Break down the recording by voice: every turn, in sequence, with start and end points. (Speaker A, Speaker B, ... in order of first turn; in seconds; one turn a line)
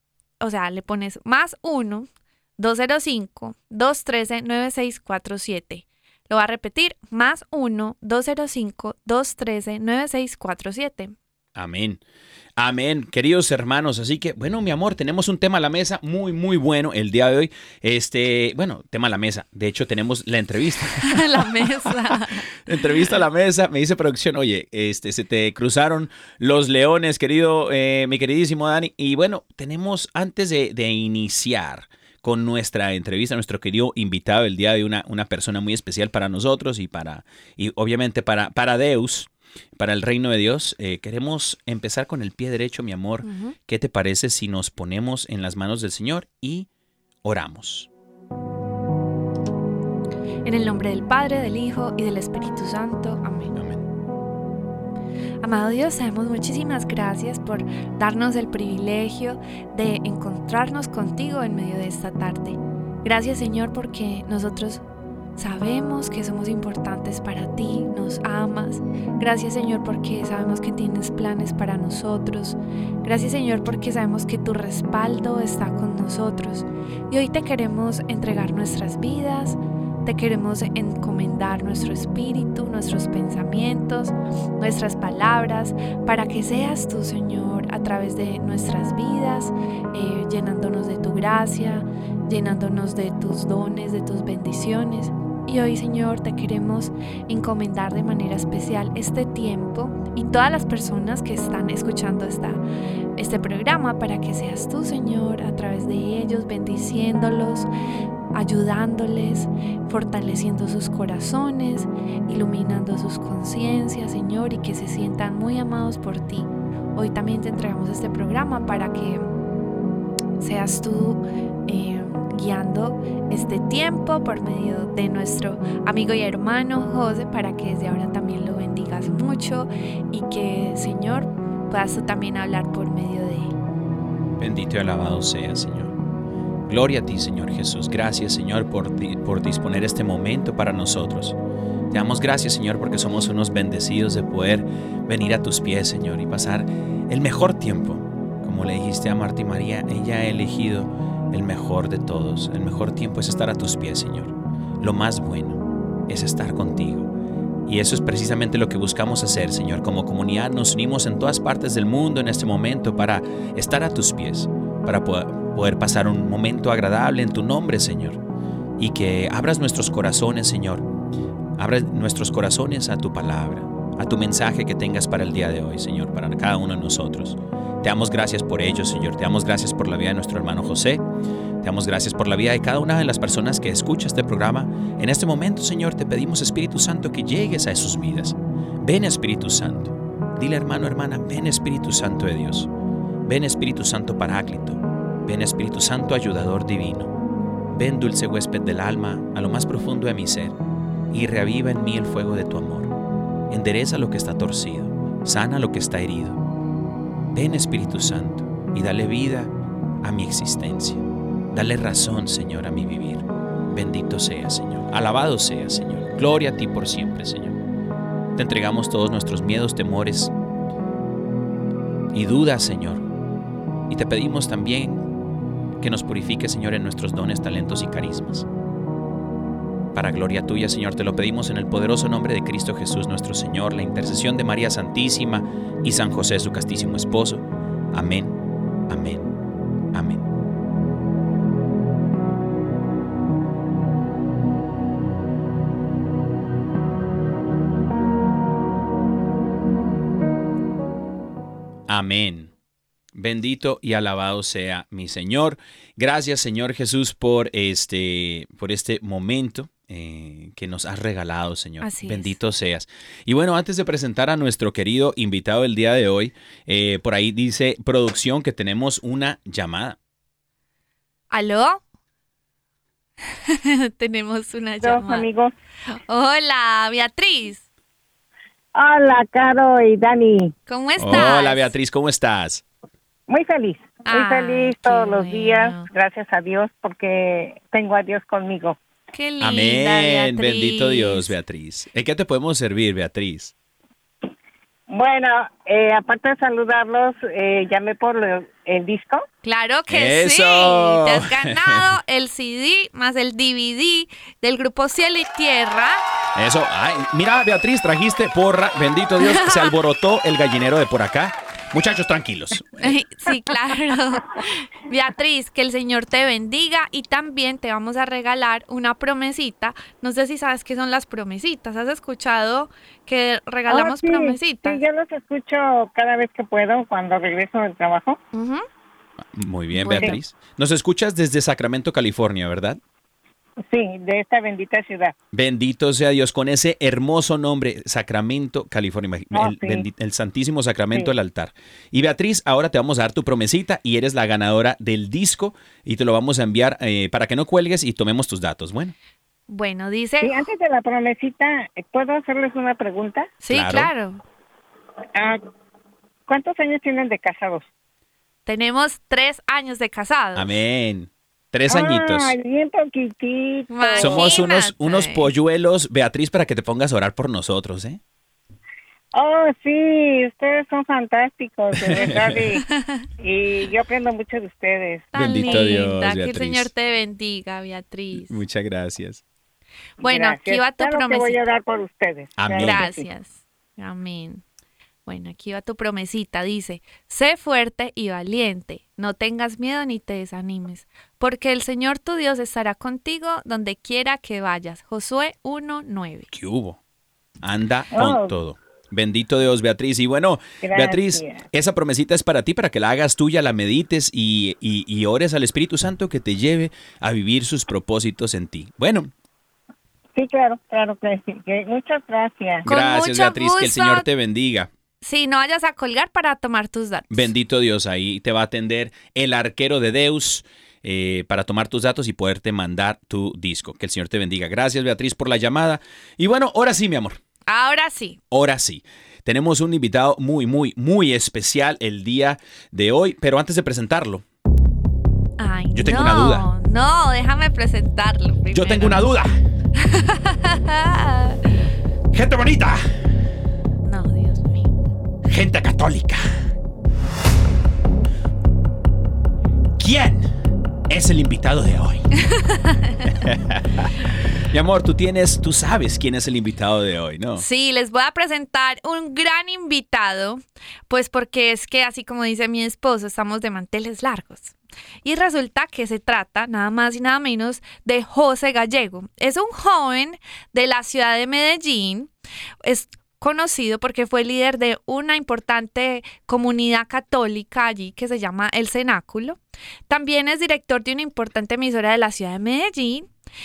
Speaker A: 0.4-11.1
Speaker B: 11.5-12.0
Speaker B: 12.6-46.7
Speaker A: 21.0-22.5
Speaker A: 43.2-43.5
Speaker B: 47.2-47.9
Speaker A: 50.4-53.5
Speaker B: 53.5-53.8
Speaker A: 55.4-64.8
Speaker A: 65.4-102.6
Speaker A: 103.2-107.7
Speaker A: 108.3-119.2
Speaker A: 120.4-133.5
Speaker B: 134.4-135.9
Speaker B: 136.7-141.4
Speaker B: 141.9-157.1
Speaker B: 157.7-168.2
Speaker B: 168.8-170.9
Speaker B: 171.6-181.1
Speaker B: 181.6-192.7
Speaker B: 193.2-197.1
Speaker B: 197.7-200.5
Speaker B: 201.1-202.9
Speaker B: 203.5-206.4
Speaker B: 207.3-217.6
Speaker B: 218.3-220.3
Speaker B: 222.1-223.1
Speaker B: 223.9-225.0
Speaker B: 225.8-228.5
Speaker B: 229.9-238.4
Speaker B: 238.9-239.3
Speaker B: 239.9-240.2
Speaker B: 251.9-252.5
Speaker B: 253.1-270.0
Speaker A: 261.8-262.4
Speaker A: 271.3-271.8
Speaker A: 273.5-275.3
Speaker C: 274.8-275.5
Speaker A: 275.9-277.6
Speaker C: 278.8-280.5
Speaker A: 280.7-281.7
Speaker B: 281.0-282.6
Speaker C: 283.3-288.8
Speaker A: 284.1-285.9
Speaker A: 289.1-291.3
Speaker B: 289.4-293.5
Speaker C: 294.9-299.2
Speaker A: 299.4-306.0
Speaker B: 299.9-301.9
Speaker B: 306.4-312.9
Speaker A: 309.2-309.7
Speaker A: 312.8-324.8
Speaker C: 323.7-328.2
Speaker A: 328.3-328.6
Speaker B: 329.3-332.8
Speaker A: 329.7-330.2
Speaker C: 333.6-335.1
Speaker B: 335.3-348.9
Speaker C: 339.3-339.9
Speaker A: 349.5-350.4
Speaker C: 350.2-353.3
Speaker A: 353.4-354.2
Speaker B: 353.5-353.9
Speaker C: 356.3-357.7
Speaker A: 358.4-360.5
Speaker B: 360.4-362.4
Speaker C: 361.7-364.4
Speaker A: 363.7-365.3
Speaker B: 364.0-368.0
Speaker C: 369.1-372.6
Speaker B: 371.8-372.4
Speaker A: 372.7-373.0
Speaker C: 373.2-375.1
Speaker A: 375.1-378.4
Speaker B: 375.1-376.7
Speaker B: 378.1-379.2
Speaker A: 380.0-381.4
Speaker C: 380.0-383.1
Speaker B: 382.4-382.9
Speaker A: 382.5-384.4
Speaker A: 385.1-396.3
Speaker B: 396.3-396.8
Speaker B: 397.4-409.1
Speaker C: 397.9-398.3
Speaker C: 400.6-401.4
Speaker C: 410.1-412.6
Speaker A: 412.6-414.1
Speaker B: 412.6-414.7
Speaker A: 415.0-417.3
Speaker B: 417.1-427.2
Speaker A: 427.5-428.2
Speaker B: 428.3-434.2
Speaker A: 435.4-439.0
Speaker B: 435.7-436.5
Speaker B: 438.5-439.4
Speaker A: 439.8-441.4
Speaker B: 442.1-442.8
Speaker A: 443.8-444.7
Speaker B: 445.3-446.5
Speaker B: 449.8-450.3
Speaker B: 450.9-452.1
Speaker A: 452.3-453.1
Speaker B: 453.1-457.4
Speaker A: 457.4-472.1
Speaker A: 472.6-483.1